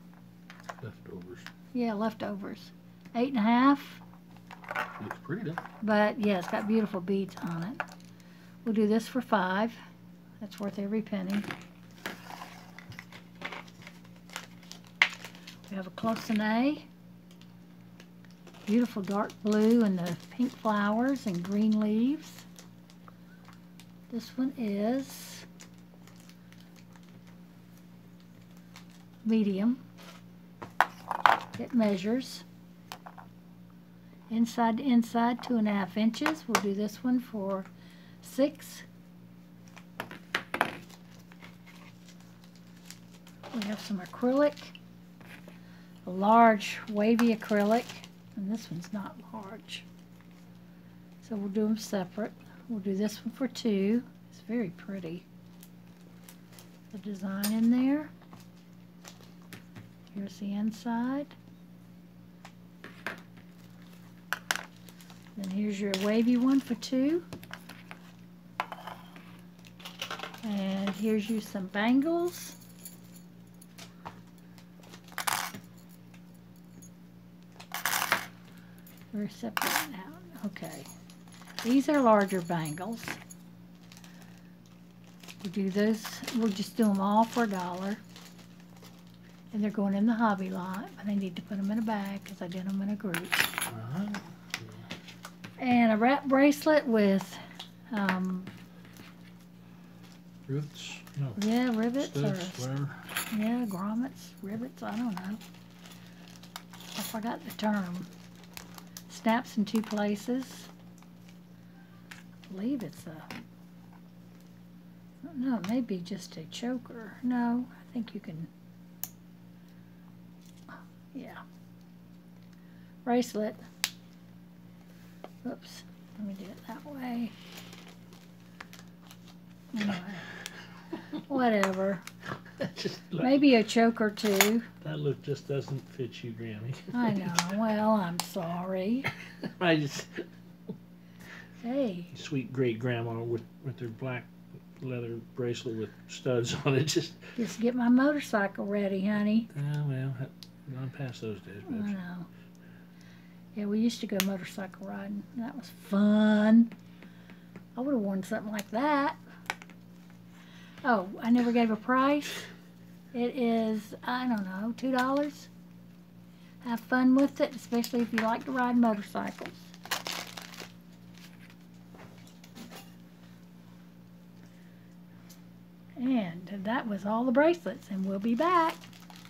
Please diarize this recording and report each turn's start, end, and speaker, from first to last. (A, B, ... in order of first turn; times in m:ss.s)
0:00.8-0:01.5 A
0:01.7-0:04.0 B
0:05.0-0:05.6 A
0:05.8-0:07.8 B
0:08.6-0:09.8 B
0:10.4-0:11.5 B
0:15.7-0:16.9 B
0:18.7-0:22.5 B
0:24.1-0:25.5 B
0:29.2-0:29.8 B
0:31.6-0:32.5 B
0:34.3-0:37.7 B
0:38.2-0:38.9 B
0:43.5-0:44.8 B
0:46.1-0:49.9 B
0:51.2-0:55.3 B
0:56.9-0:58.1 B
1:00.1-1:01.4 B
1:05.4-1:07.3 B
1:10.4-1:12.6 B
1:19.1-1:20.9 B
1:21.6-1:23.2 B
1:25.4-1:28.0 B
1:29.5-1:33.5 B
1:33.7-1:34.8 A
1:35.6-1:37.4 B
1:37.9-1:38.5 B
1:40.5-1:41.4 A
1:41.4-1:42.6 B
1:42.0-1:43.1 A
1:43.3-1:45.4 B
1:47.0-1:48.1 B
1:49.1-1:50.7 B
1:52.5-1:53.3 B
1:55.2-1:58.5 B
2:01.1-2:01.4 B
2:03.0-2:03.6 B
2:05.4-2:07.3 B
2:09.7-2:10.3 B
2:11.2-2:12.0 B
2:12.6-2:13.4 A
2:13.2-2:14.7 B
2:14.8-2:17.4 A
2:16.9-2:19.1 B
2:19.4-2:20.3 A
2:21.6-2:22.1 B
2:22.1-2:27.4 A
2:27.4-2:29.5 B
2:29.5-2:32.0 A
2:31.7-2:32.3 B
2:33.6-2:36.7 B
2:37.8-2:39.2 B
2:40.8-2:42.5 B
2:43.1-2:45.5 B
2:46.6-2:49.7 B
2:56.0-2:58.8 B